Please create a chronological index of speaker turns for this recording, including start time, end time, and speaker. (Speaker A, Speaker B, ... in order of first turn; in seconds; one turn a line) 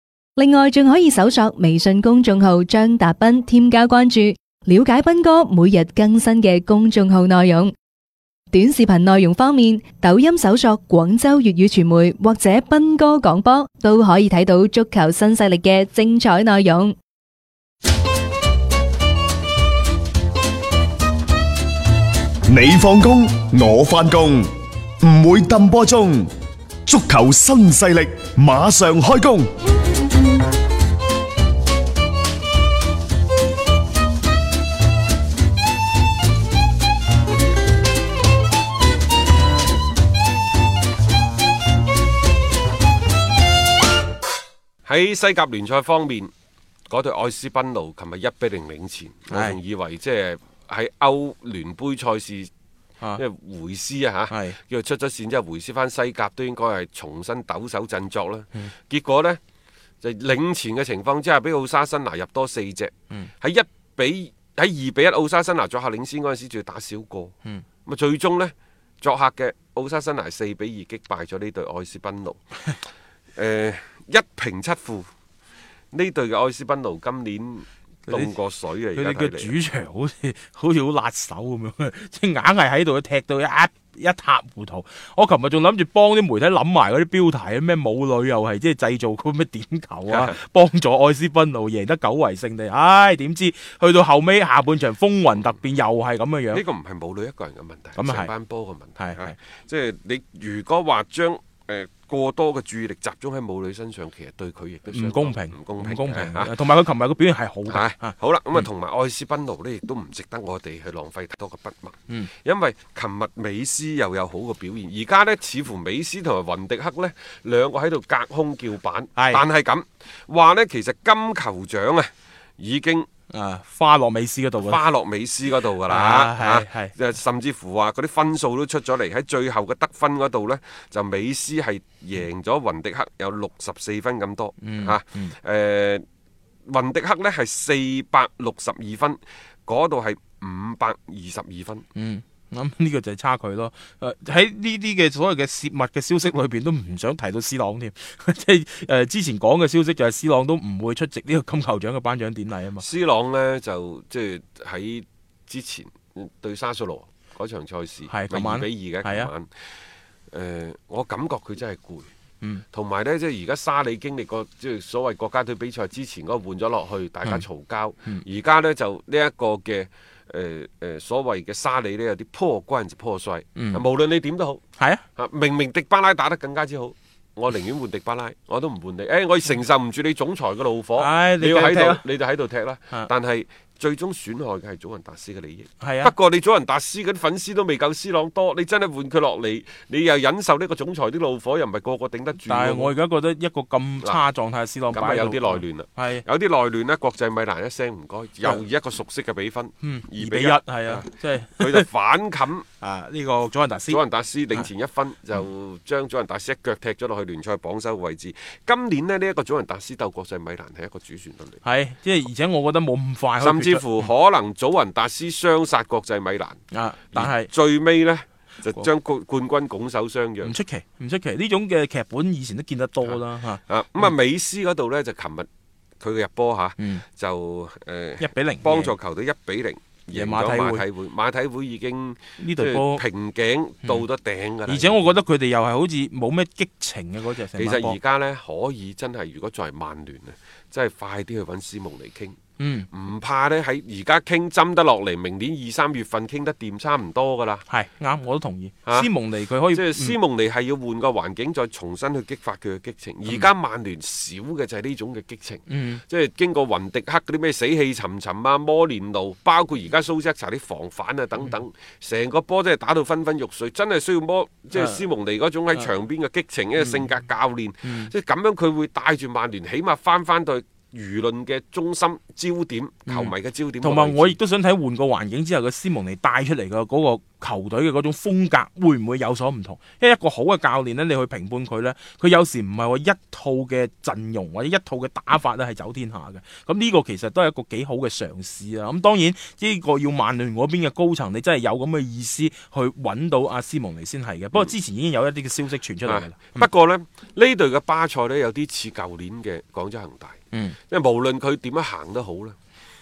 Speaker A: 0.3-7.7
Speaker A: 8.5-16.9
Speaker B: 22.5-24.5
Speaker B: 25.0-26.3
Speaker B: 26.9-29.5
Speaker C: 44.9-46.3
Speaker C: 46.9-52.5
Speaker D: 49.3-49.6
Speaker C: 53.2-59.4
Speaker D: 54.3-54.5
Speaker C: 60.0-67.3
Speaker C: 67.8-72.4
Speaker C: 73.3-75.1
Speaker C: 75.9-79.5
Speaker D: 78.1-78.3
Speaker D: 78.9-96.6
Speaker C: 90.1-90.3
Speaker C: 96.5-106.5
Speaker D: 98.0-98.3
Speaker D: 99.0-99.3
Speaker D: 104.9-108.7
Speaker C: 107.7-123.1
Speaker D: 119.2-119.4
Speaker D: 123.3-124.8
Speaker C: 124.6-136.0
Speaker D: 125.8-126.9
Speaker D: 134.6-135.3
Speaker C: 136.7-141.8
Speaker D: 141.9-152.8
Speaker C: 152.8-159.5
Speaker D: 158.1-159.3
Speaker C: 160.3-162.1
Speaker C: 162.7-174.6
Speaker D: 173.6-173.8
Speaker C: 175.2-192.9
Speaker D: 180.9-182.0
Speaker D: 185.8-186.1
Speaker D: 192.4-196.2
Speaker C: 194.9-202.6
Speaker D: 199.8-201.9
Speaker D: 202.8-204.0
Speaker C: 203.9-211.6
Speaker D: 211.6-214.1
Speaker C: 213.4-216.6
Speaker D: 216.7-217.5
Speaker C: 217.1-220.6
Speaker D: 220.4-224.1
Speaker C: 223.0-225.5
Speaker C: 226.0-235.2
Speaker D: 228.2-228.9
Speaker D: 230.1-230.8
Speaker D: 232.4-233.0
Speaker D: 234.7-238.0
Speaker C: 237.6-242.4
Speaker D: 242.6-242.9
Speaker C: 242.9-247.6
Speaker D: 247.7-250.2
Speaker C: 249.7-274.4
Speaker D: 255.7-256.0
Speaker D: 264.7-265.0
Speaker D: 266.8-267.1
Speaker D: 267.9-268.1
Speaker D: 273.1-296.7
Speaker C: 296.1-302.6